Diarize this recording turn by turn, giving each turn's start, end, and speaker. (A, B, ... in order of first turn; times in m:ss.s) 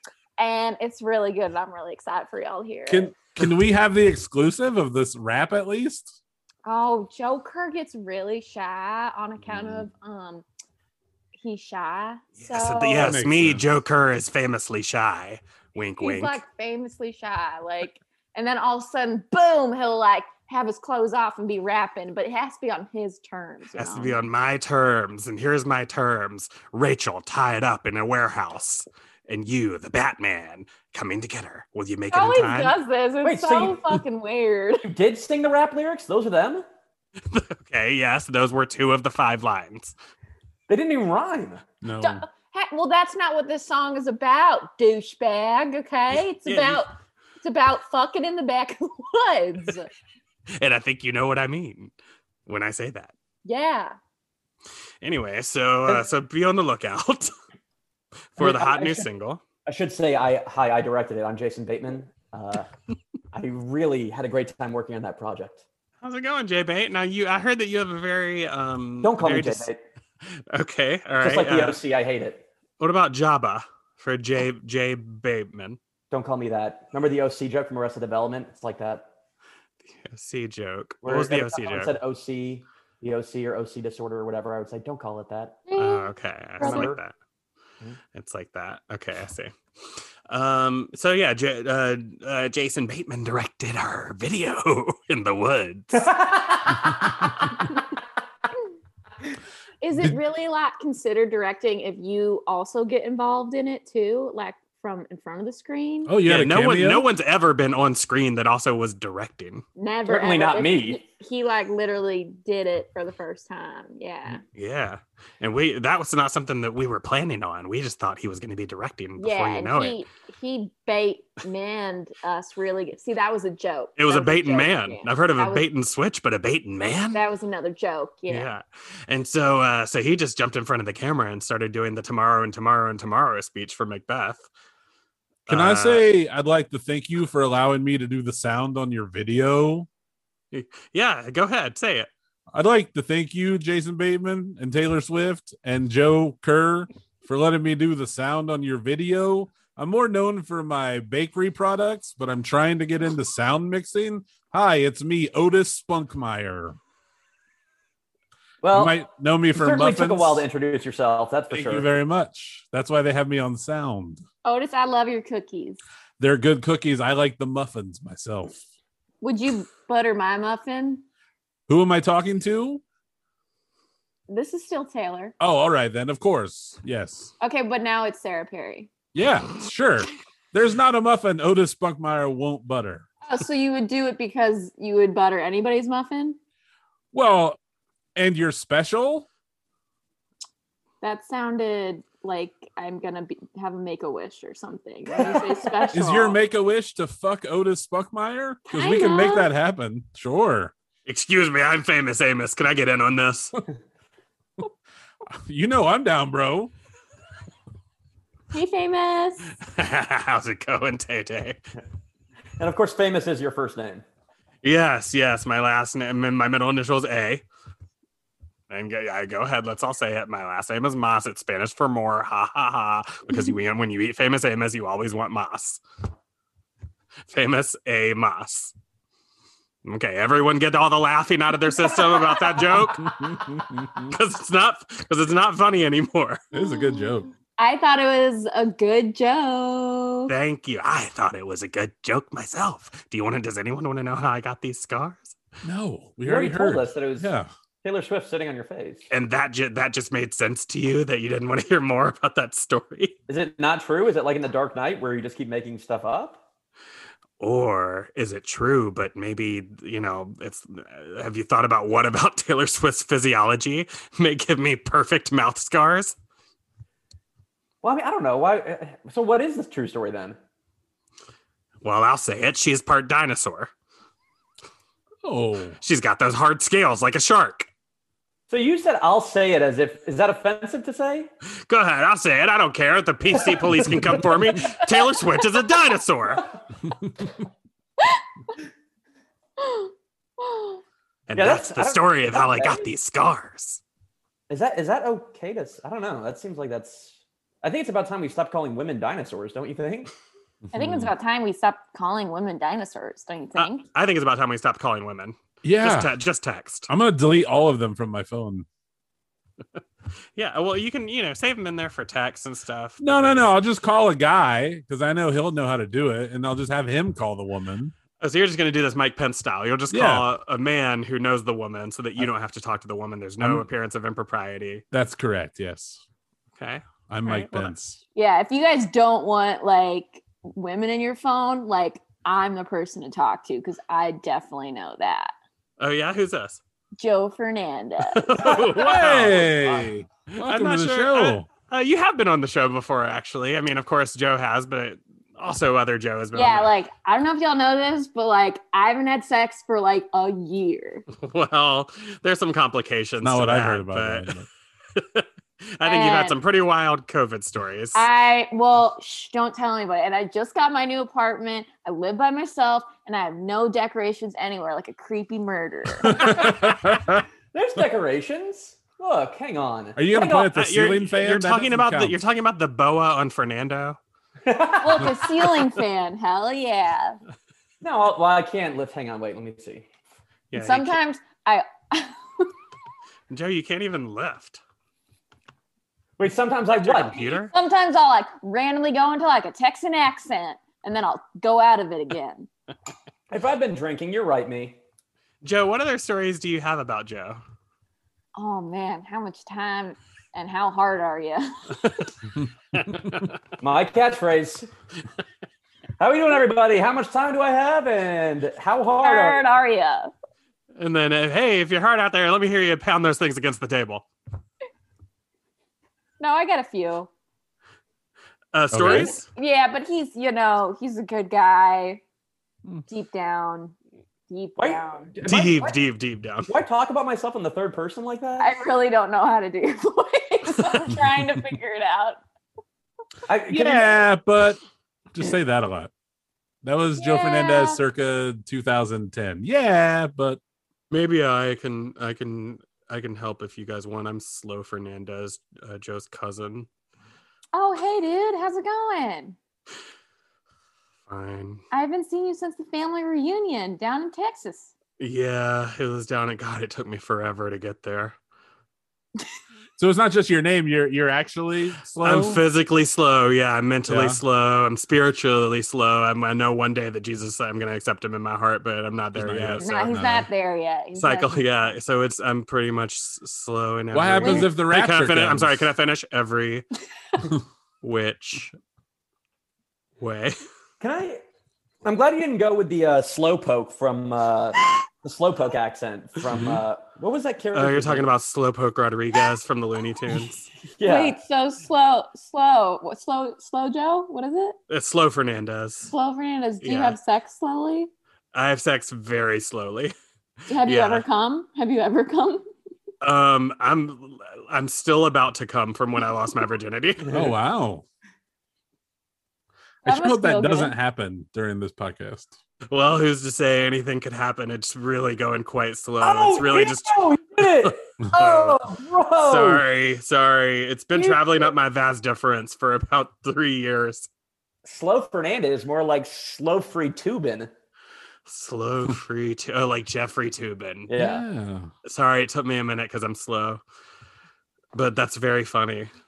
0:00.4-0:03.1 A
0:02.9-0:06.1 B
0:06.6-0:10.4 A
0:11.3-0:13.2 A
0:12.4-0:16.4 C
0:13.0-0:13.6 B
0:16.0-0:24.2 A
0:23.7-0:32.7 C
0:32.1-0:34.9 A
0:33.2-0:33.8 D
0:34.8-0:36.6 D
0:37.3-0:39.9 C
0:40.7-0:41.6 D
0:41.8-0:42.2 B
0:42.0-0:46.9 A
0:46.4-0:46.8 C
0:47.4-0:49.9 A
0:50.6-0:51.9 C
0:52.5-0:53.1 C
0:53.4-0:54.0 A
0:55.0-0:57.3 C
0:58.4-0:59.4 C
0:58.4-0:59.1 D
0:59.6-1:02.7 D
1:03.3-1:05.6 D
1:06.0-1:09.7 C
1:09.0-1:09.8 D
1:10.5-1:11.8 C
1:11.2-1:12.4 D
1:12.8-1:15.8 C
1:16.1-1:19.1 D
1:19.9-1:21.9 C
1:21.0-1:25.6 D
1:25.7-1:26.8 A
1:25.8-1:27.1 C
1:26.6-1:27.0 D
1:28.1-1:29.5 C
1:30.3-1:36.1 C
1:35.9-1:37.2 D
1:39.8-1:46.1 A
1:46.0-1:47.0 B
1:46.2-1:49.6 C
1:49.8-1:54.4 A
1:50.1-1:51.0 D
1:54.5-2:00.0 C
1:59.2-2:05.6 A
2:04.0-2:07.2 C
2:07.1-2:08.5 A
2:08.3-2:14.4 C
2:15.5-2:16.1 C
2:15.5-2:19.9 B
2:20.5-2:22.1 C
2:22.5-2:36.8 B
2:38.6-2:39.0 D
2:38.7-2:40.4 B
2:39.5-2:41.9 D
2:41.5-2:44.2 B
2:44.4-2:45.8 A
2:46.2-2:48.6 B
2:49.2-2:51.0 A
2:51.7-2:52.8 B
2:54.3-2:55.3 A
2:55.4-2:57.3 B
2:57.4-2:58.9 A
2:59.1-3:03.1 B
3:03.2-3:06.4 A
3:07.1-3:07.6 B
3:08.2-3:09.3 B
3:11.0-3:16.4 A
3:15.1-3:15.9 D
3:15.9-3:20.7 B
3:18.7-3:19.5 A
3:21.0-3:23.5 C
3:25.4-3:26.7 B
3:28.5-3:29.4 A
3:29.6-3:31.6 C
3:32.6-3:34.0 D
3:34.6-3:37.4 C
3:38.7-3:45.8 C
3:47.3-3:48.7 C
3:49.8-3:53.2 C
3:53.0-3:54.0 B
3:54.0-3:56.4 C
3:56.5-3:57.3 B
3:57.6-4:00.3 A
4:00.3-4:05.4 C
4:05.6-4:07.5 B
4:06.2-4:07.3 D
4:07.8-4:09.1 D
4:09.1-4:13.2 C
4:13.3-4:16.4 D
4:17.4-4:26.1 C
4:27.8-4:30.4 D
4:31.8-4:33.7 C
4:35.2-4:35.8 B
4:35.8-4:37.7 C
4:38.5-4:41.3 D
4:41.7-4:46.5 C
4:43.3-4:44.0 D
4:49.6-4:50.8 A
4:51.3-4:53.8 C
4:51.3-4:52.9 D
4:54.5-5:00.1 D
5:00.6-5:01.1 B
5:00.7-5:03.8 A
5:03.6-5:06.9 C
5:05.6-5:06.1 B
5:06.9-5:08.6 B
5:10.4-5:13.5 C
5:13.0-5:17.9 B
5:18.2-5:24.8 C
5:19.9-5:20.2 B
5:24.9-5:26.0 B
5:26.6-5:27.7 C
5:27.1-5:28.0 B
5:28.1-5:35.3 A
5:35.8-5:36.6 C
5:37.0-5:38.6 A
5:38.1-5:46.7 C
5:38.4-5:41.4 B
5:46.3-5:51.0 A
5:51.2-5:54.3 C
5:53.2-5:54.5 B
5:55.0-5:58.0 C
5:55.8-5:56.4 A
5:57.9-6:06.3 A
6:06.0-6:07.2 B
6:06.2-6:06.7 D
6:07.5-6:10.5 D
6:10.0-6:12.1 B
6:10.5-6:14.0 C
6:14.4-6:15.1 D
6:14.8-6:17.2 A
6:17.8-6:19.8 D
6:20.5-6:21.0 C
6:20.5-6:22.5 A
6:23.3-6:24.6 C
6:26.2-6:27.3 D
6:26.7-6:27.5 C
6:27.4-6:32.5 A
6:33.3-6:34.8 D
6:35.4-6:37.4 C
6:38.3-6:41.8 A
6:42.7-6:43.2 C
6:43.6-6:44.7 D
6:46.0-6:49.4 D
6:49.0-6:50.1 A
6:50.8-6:54.0 C
6:56.2-6:57.1 A
6:58.5-6:59.2 C
6:58.7-6:59.1 B
6:59.3-7:02.0 A
7:02.9-7:03.7 A
7:04.3-7:05.1 A
7:04.6-7:05.8 D
7:05.2-7:06.5 C
7:06.4-7:08.6 D
7:08.4-7:12.2 A
7:10.6-7:10.9 C
7:13.3-7:14.0 D
7:13.5-7:14.6 B
7:15.1-7:15.9 B
7:16.6-7:20.4 B
7:17.0-7:17.8 A
7:20.9-7:26.7 C
7:27.5-7:29.4 A
7:31.1-7:31.6 C
7:31.7-7:34.7 A
7:35.0-7:38.1 C
7:39.8-7:42.4 B
7:42.0-7:49.9 C
7:43.9-7:44.2 B
7:49.1-7:50.3 B
7:49.6-7:51.8 A
7:51.0-7:56.6 C
7:53.9-7:55.7 B
7:54.2-7:54.5 A
7:57.8-7:58.5 C
8:00.0-8:00.3 C
8:00.8-8:01.2 D
8:01.8-8:08.1 D
8:06.3-8:06.6 B
8:07.5-8:10.5 C
8:10.8-8:11.2 D
8:10.8-8:14.6 A
8:14.7-8:15.9 C
8:15.9-8:17.9 A
8:16.6-8:17.0 C
8:18.3-8:19.9 C
8:20.5-8:22.4 A
8:20.6-8:21.0 C
8:23.0-8:27.3 C
8:27.1-8:27.3 D
8:27.1-8:27.8 B
8:29.8-8:32.3 B
8:29.8-8:30.8 A
8:32.7-8:37.1 C
8:36.0-8:39.6 D
8:37.6-8:44.1 C
8:40.9-8:41.5 D
8:44.6-8:47.5 D
8:48.3-8:50.9 C
8:50.9-8:51.2 D
8:51.0-8:51.7 B
8:51.8-8:53.6 C
8:54.7-8:55.9 C